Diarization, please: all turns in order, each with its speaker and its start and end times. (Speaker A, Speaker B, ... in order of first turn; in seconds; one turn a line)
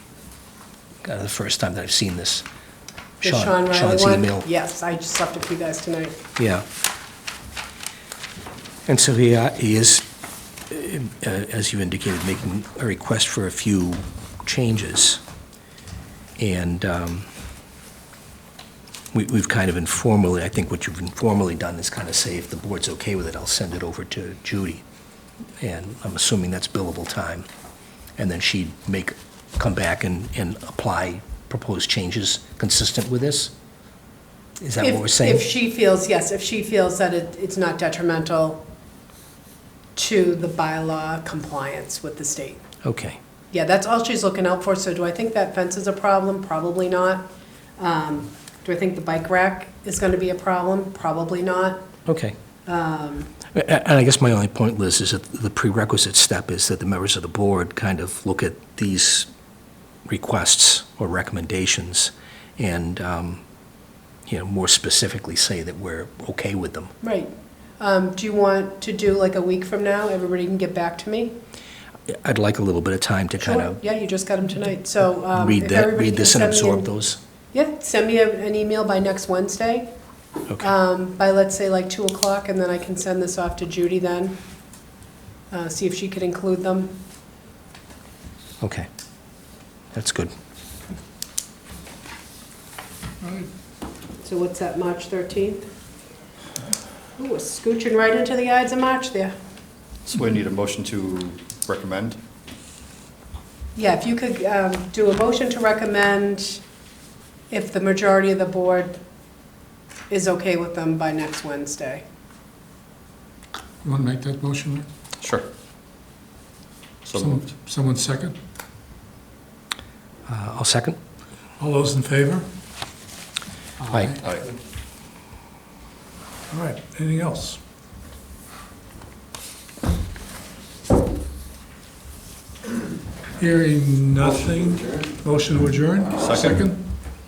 Speaker A: 1.0-2.4
Speaker B: 3.2-6.2
Speaker A: 3.2-4.5
Speaker A: 6.4-6.6
Speaker A: 8.8-10.1
Speaker A: 10.7-15.2
Speaker A: 16.4-17.3
Speaker A: 19.1-24.8
Speaker A: 25.6-27.5
Speaker A: 28.2-33.5
Speaker A: 34.6-35.5
Speaker B: 34.8-38.6
Speaker B: 40.0-42.6
Speaker A: 42.8-43.2
Speaker B: 43.5-47.3
Speaker B: 47.8-51.9
Speaker A: 52.1-52.4
Speaker B: 52.7-53.3
Speaker A: 53.5-59.3
Speaker A: 60.0-63.4
Speaker A: 64.3-66.9
Speaker B: 67.0-71.3
Speaker A: 72.1-73.8
Speaker B: 73.4-76.9
Speaker A: 75.3-77.2
Speaker B: 77.5-79.9
Speaker B: 80.6-84.4
Speaker B: 85.5-87.0
Speaker A: 88.6-88.9
Speaker A: 89.9-90.3
Speaker C: 93.2-93.5
Speaker B: 94.2-95.7
Speaker B: 97.2-99.3
Speaker D: 100.0-102.2
Speaker B: 103.7-106.6
Speaker B: 107.5-109.0
Speaker B: 110.1-112.0
Speaker C: 113.8-114.9
Speaker D: 115.2-115.5
Speaker D: 117.0-117.5
Speaker C: 117.2-118.4
Speaker A: 120.3-121.0
Speaker C: 121.6-122.5
Speaker C: 123.8-124.2
Speaker D: 124.2-124.5
Speaker C: 126.5-127.6
Speaker C: 133.4-136.9
Speaker D: 136.2-136.6